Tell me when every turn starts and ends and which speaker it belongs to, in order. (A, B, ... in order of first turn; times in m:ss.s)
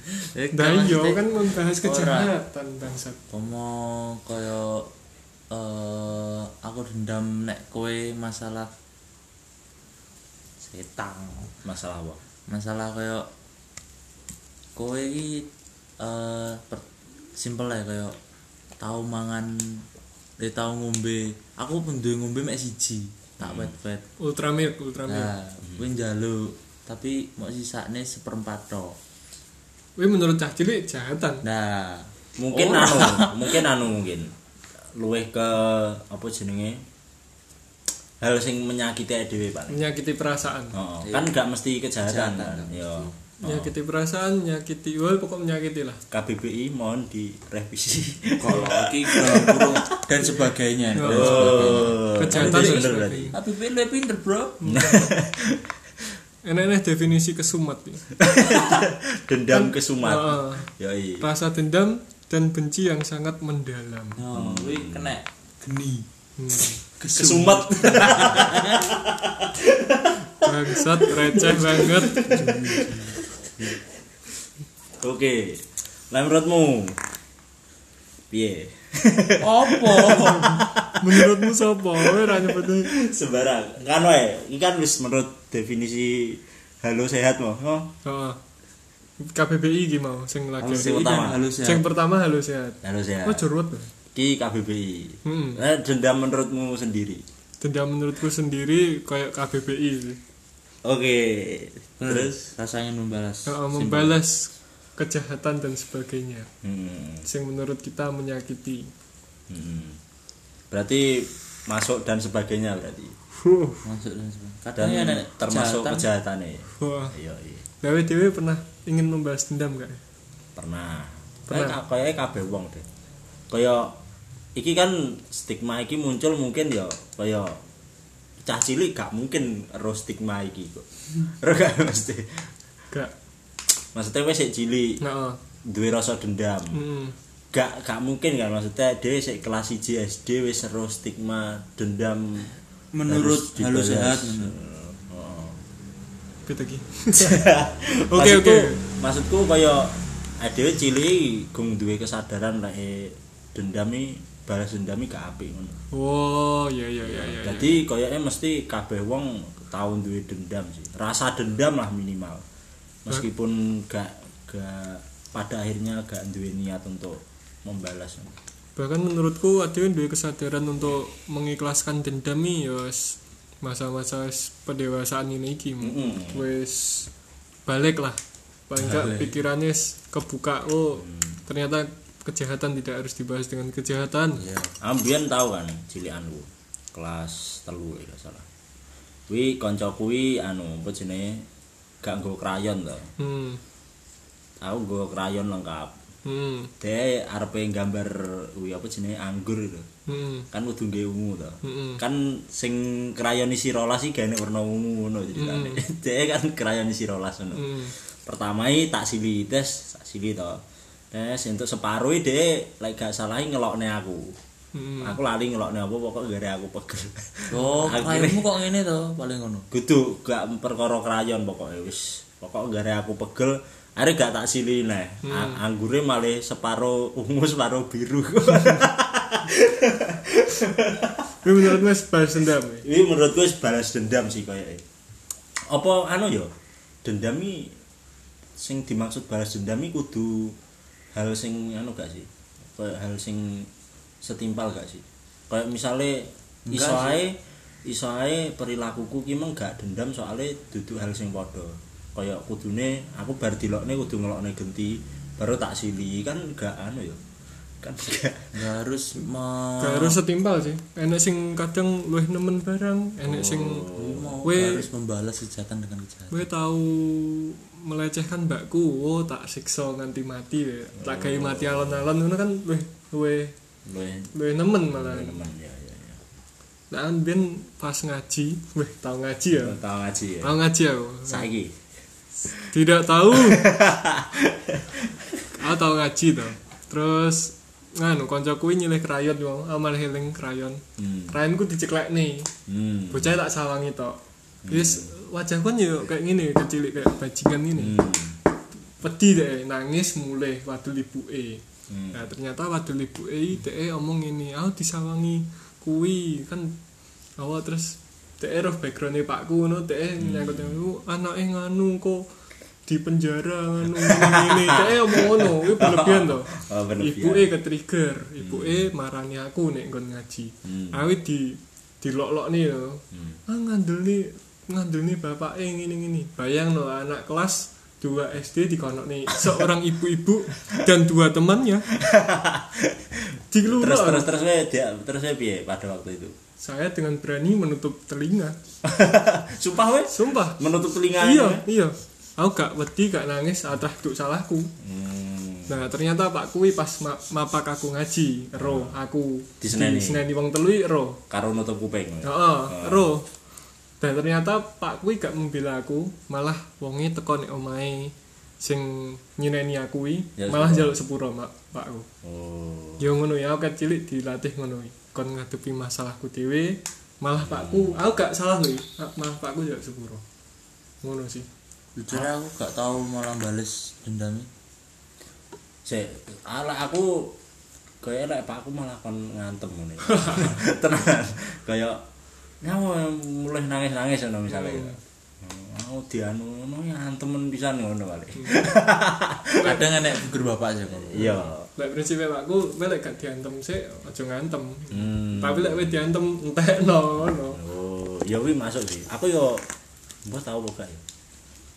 0:00.2-0:01.2 A
0:00.5-0:03.2 B
0:01.8-0:02.3 A
0:03.3-0:04.9 A
0:05.5-0:08.7 A
0:10.6-0:11.5 A
0:11.6-0:12.2 C
0:12.5-0:13.3 A
0:14.8-0:15.5 A
0:16.0-0:16.8 A
0:17.4-0:18.2 A
0:18.8-0:19.8 A
0:20.4-0:24.0 A
0:23.4-0:23.7 C
0:24.2-0:25.3 B
0:25.1-0:29.0 A
0:30.0-0:31.4 B
0:31.4-0:33.6 A
0:32.4-0:34.3 C
0:35.0-0:36.8 C
0:38.2-0:39.9 C
0:39.7-0:40.8 B
0:40.7-0:43.7 C
0:41.0-0:41.3 A
0:42.0-0:43.2 A
0:43.4-0:46.0 B
0:46.1-0:49.9 C
0:48.4-0:54.6 A
0:51.0-0:53.4 C
0:51.0-0:53.4 B
0:54.6-0:55.1 B
0:54.6-0:56.1 C
0:56.4-0:58.1 B
0:58.2-1:01.3 C
0:59.5-1:04.2 B
1:04.2-1:08.9 A
1:04.3-1:05.1 C
1:06.4-1:06.8 B
1:07.2-1:13.8 C
1:10.4-1:12.3 B
1:12.1-1:13.2 A
1:15.0-1:17.0 C
1:18.3-1:27.9 C
1:19.4-1:20.6 A
1:21.0-1:22.9 B
1:28.0-1:28.4 B
1:29.2-1:30.9 B
1:30.6-1:31.8 A
1:30.6-1:31.4 C
1:31.6-1:33.9 B
1:32.8-1:33.4 C
1:34.1-1:37.2 C
1:35.3-1:35.6 B
1:37.6-1:40.2 B
1:40.8-1:42.3 C
1:42.0-1:44.2 A
1:43.5-1:46.5 B
1:46.6-1:47.3 C
1:47.3-1:48.9 B
1:49.5-1:50.0 C
1:50.7-1:53.2 C
1:53.4-1:53.8 B
1:53.8-1:56.1 A
1:54.8-1:57.6 C
1:56.8-1:57.2 B
1:57.8-2:00.0 B
2:00.6-2:02.9 C
2:01.5-2:01.8 B
2:03.5-2:03.9 C
2:04.6-2:07.6 C
2:08.4-2:12.5 C
2:13.9-2:15.0 C
2:15.0-2:15.4 B
2:15.7-2:16.8 C
2:16.7-2:17.2 B
2:17.5-2:22.5 C
2:22.9-2:24.6 A
2:23.1-2:25.6 C
2:26.5-2:27.4 B
2:27.2-2:35.8 C
2:28.0-2:28.8 B
2:35.9-2:37.8 B
2:37.0-2:42.4 C
2:43.0-2:48.4 C
2:48.8-2:57.1 B
2:55.8-2:56.5 C
2:57.7-2:58.2 B
2:58.7-3:04.4 B
2:58.8-2:59.4 A
3:01.0-3:01.4 C
3:04.4-3:04.7 A
3:04.8-3:08.5 C
3:09.3-3:11.5 C
3:12.0-3:13.1 C
3:13.2-3:13.6 B
3:14.6-3:16.0 C
3:16.3-3:16.7 B
3:16.8-3:19.9 C
3:20.1-3:20.5 B
3:20.5-3:30.6 C
3:21.6-3:22.0 B
3:25.4-3:25.8 B
3:27.6-3:27.9 B
3:31.1-3:34.4 C
3:34.7-3:35.2 B
3:35.0-3:38.5 C
3:37.5-3:39.7 A
3:39.7-3:51.8 C
3:45.2-3:45.6 B
3:51.4-3:52.8 B
3:52.8-3:54.8 C
3:55.7-3:56.5 C
3:57.0-3:57.8 C
3:58.6-4:00.6 C
4:01.2-4:03.7 C
4:04.2-4:17.2 C
4:06.7-4:07.2 A
4:17.8-4:18.5 C
4:18.5-4:20.2 A
4:19.8-4:23.9 B
4:23.2-4:24.4 C
4:23.9-4:26.5 A
4:24.4-4:24.9 B
4:26.3-4:33.5 B
4:31.0-4:32.1 C
4:33.9-4:34.3 C
4:34.3-4:35.4 B
4:34.8-4:36.2 C
4:36.9-4:39.8 B
4:39.5-4:40.6 C
4:40.4-4:41.5 B
4:41.3-4:41.7 C
4:42.6-4:43.7 B
4:43.3-4:45.5 C
4:45.6-4:52.5 B
4:51.0-4:51.4 C
4:52.7-4:53.4 C
4:53.1-4:54.2 B
4:54.6-4:55.1 C
4:54.7-4:58.0 B
4:57.8-4:58.4 C
4:59.0-5:06.8 B
5:01.9-5:02.2 C
5:07.4-5:12.3 B
5:10.2-5:10.8 C
5:12.9-5:31.9 B
5:14.0-5:17.5 C
5:18.4-5:18.9 C
5:20.6-5:21.0 C
5:23.1-5:23.4 C
5:32.0-5:36.4 C
5:33.5-5:34.3 B
5:36.6-5:38.6 B
5:38.8-5:41.6 C
5:40.1-5:40.6 B
5:41.2-5:44.7 B
5:44.8-5:45.8 C
5:45.7-5:51.2 B
5:48.6-5:49.0 C
5:49.6-5:50.2 C
5:51.3-5:53.1 C
5:52.2-5:53.3 B
5:54.0-6:02.1 B
6:00.4-6:01.0 C
6:02.2-6:03.1 C
6:03.0-6:10.2 B
6:07.4-6:08.0 C
6:11.0-6:11.5 B
6:12.0-6:14.5 A
6:15.8-6:17.4 C
6:18.0-6:22.0 C
6:20.0-6:20.6 B
6:22.6-6:29.8 C
6:24.5-6:25.0 B
6:29.6-6:31.4 A
6:29.6-6:29.9 B
6:31.0-6:31.7 C
6:31.8-6:37.6 B
6:34.9-6:36.0 C
6:37.5-6:39.6 C
6:40.2-6:41.0 C